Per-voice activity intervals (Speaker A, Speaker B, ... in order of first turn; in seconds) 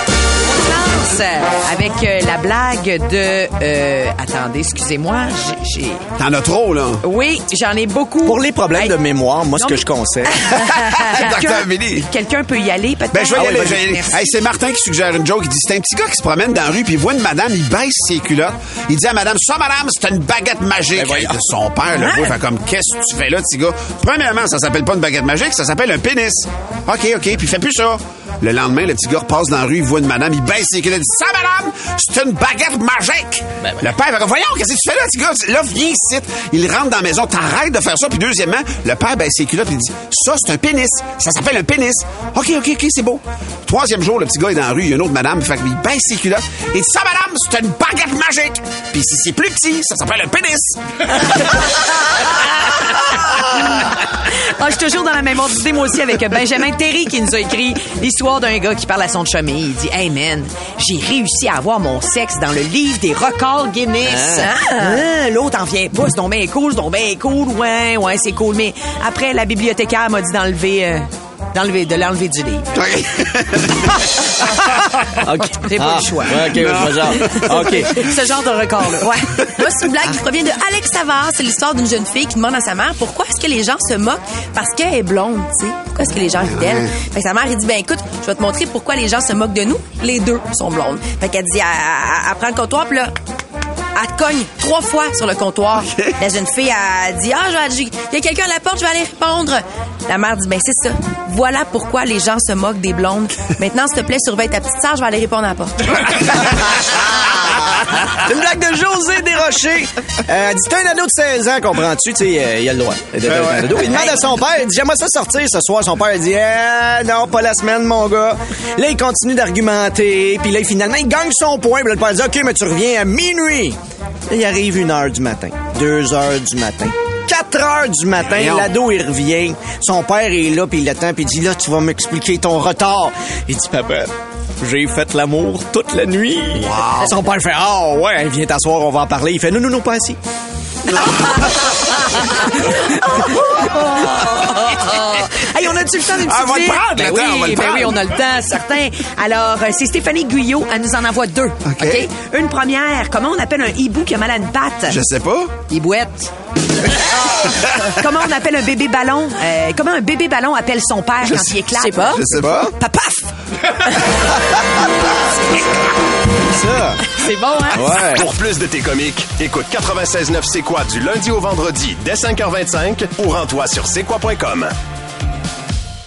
Speaker A: 0.5-6.0, 7.0-9.0, 9.5-14.3, 53.4-72.7, 75.1-79.3, 142.3-155.0, 155.7-156.3, 157.3-163.7
Speaker B: 6.2-7.0, 10.5-12.1, 13.1-51.3, 72.7-75.0, 76.3-78.1, 86.3-86.9, 113.2-113.9, 128.2-128.7, 136.5-137.2, 140.9-141.7, 146.2-148.2, 151.6-152.1, 154.9-155.5, 161.2-162.7
Speaker C: 8.2-10.5, 13.3-13.8, 20.9-21.4, 64.0-64.5, 75.0-77.9, 106.0-123.8, 124.3-140.2, 162.3-162.7, 166.5-167.1, 167.7-168.3
Speaker D: 64.3-65.0, 79.0-93.1, 93.9-106.0, 161.8-162.3, 167.1-167.9
Speaker E: 168.0-174.7